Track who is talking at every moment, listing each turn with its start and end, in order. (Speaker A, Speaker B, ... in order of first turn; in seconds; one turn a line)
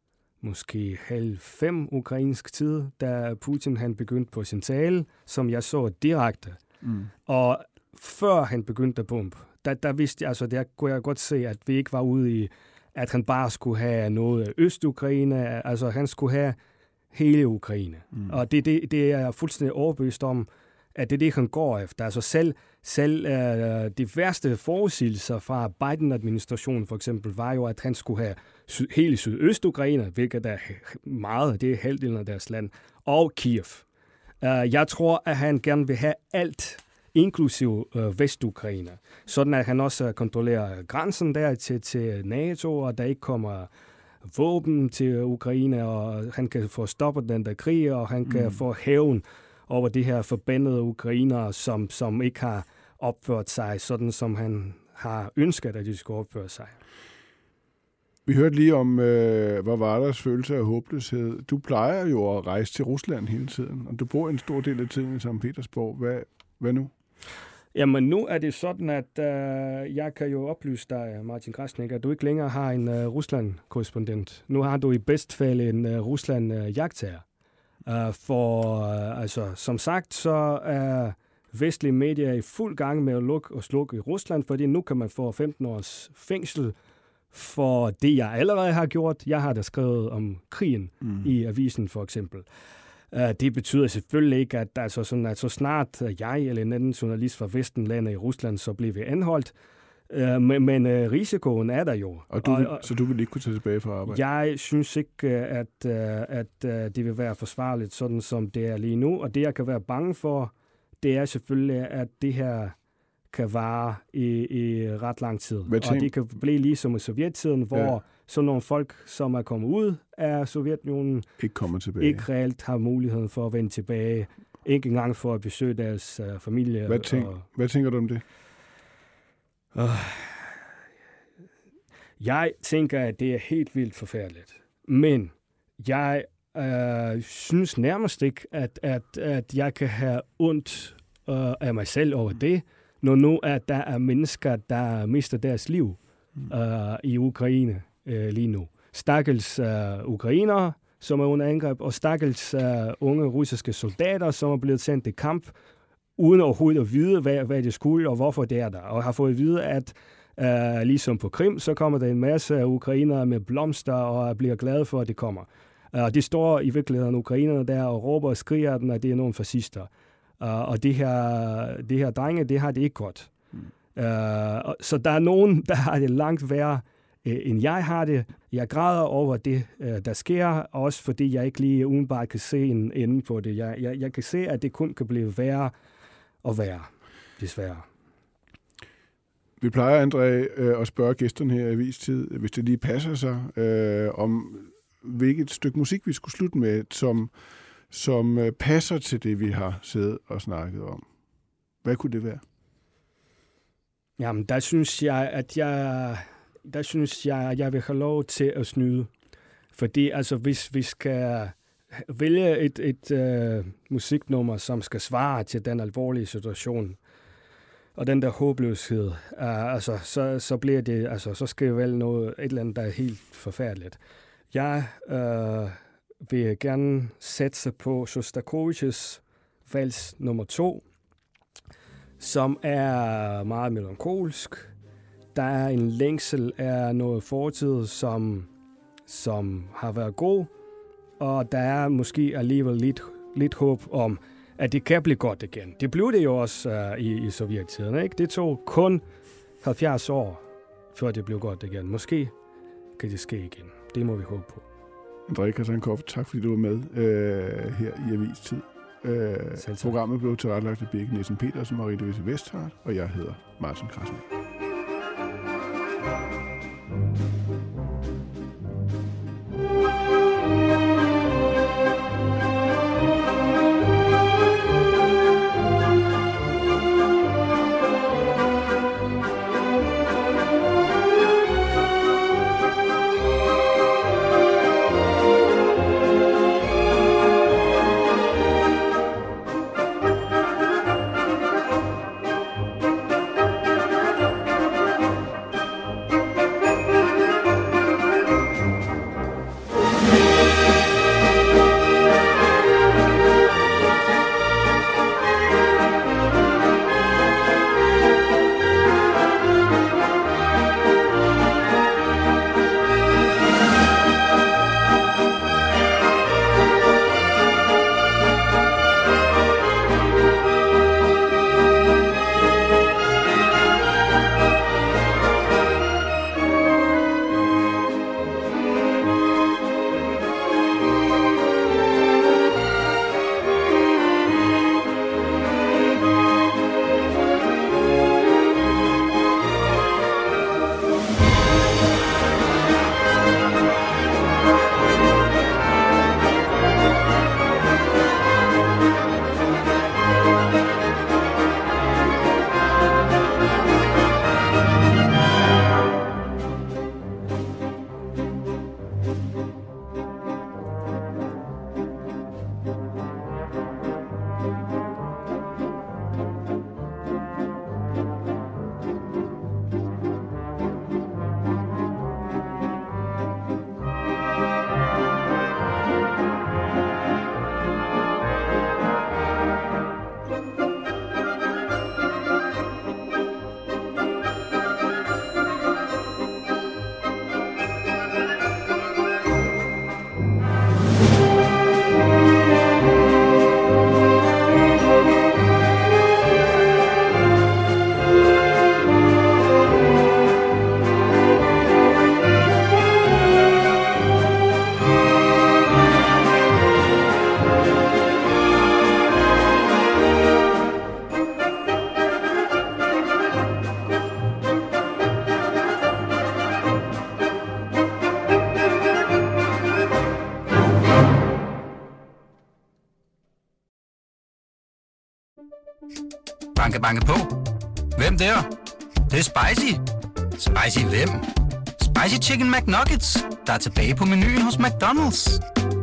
Speaker A: 0.4-6.6
Speaker B: 6.8-7.1
Speaker A: 7.3-16.6
Speaker A: 17.1-33.9
Speaker A: 34.4-43.7
Speaker A: 44.2-56.8
Speaker B: 48.3-48.6
Speaker B: 58.3-66.9
Speaker A: 67.7-77.2
Speaker A: 77.9-86.7
Speaker A: 87.3-92.5
Speaker A: 93.1-99.5
Speaker A: 100.1-102.9
Speaker B: 102.3-104.2
Speaker A: 104.1-112.8
Speaker A: 113.3-121.3
Speaker B: 115.7-116.1
Speaker B: 121.4-122.3
Speaker A: 122.0-127.4
Speaker B: 126.9-128.2
Speaker A: 129.7-130.6
Speaker A: 132.2-155.5
Speaker A: 156.2-173.3
Speaker A: 173.9-185.7
Speaker A: 186.4-187.8
Speaker B: 189.6-197.3
Speaker B: 197.9-201.0
Speaker B: 201.8-202.4
Speaker A: 204.2-209.1
Speaker A: 209.7-217.0
Speaker A: 218.0-224.0
Speaker A: 224.5-230.8
Speaker A: 232.2-234.7
Speaker A: 235.3-238.5
Speaker A: 239.1-240.5
Speaker A: 241.2-249.0
Speaker A: 249.6-250.4
Speaker A: 250.9-252.3
Speaker A: 253.0-254.6
Speaker B: 255.3-264.2
Speaker A: 259.6-260.0
Speaker C: 426.6-428.5
Speaker C: 429.1-429.8
Speaker C: 430.4-435.4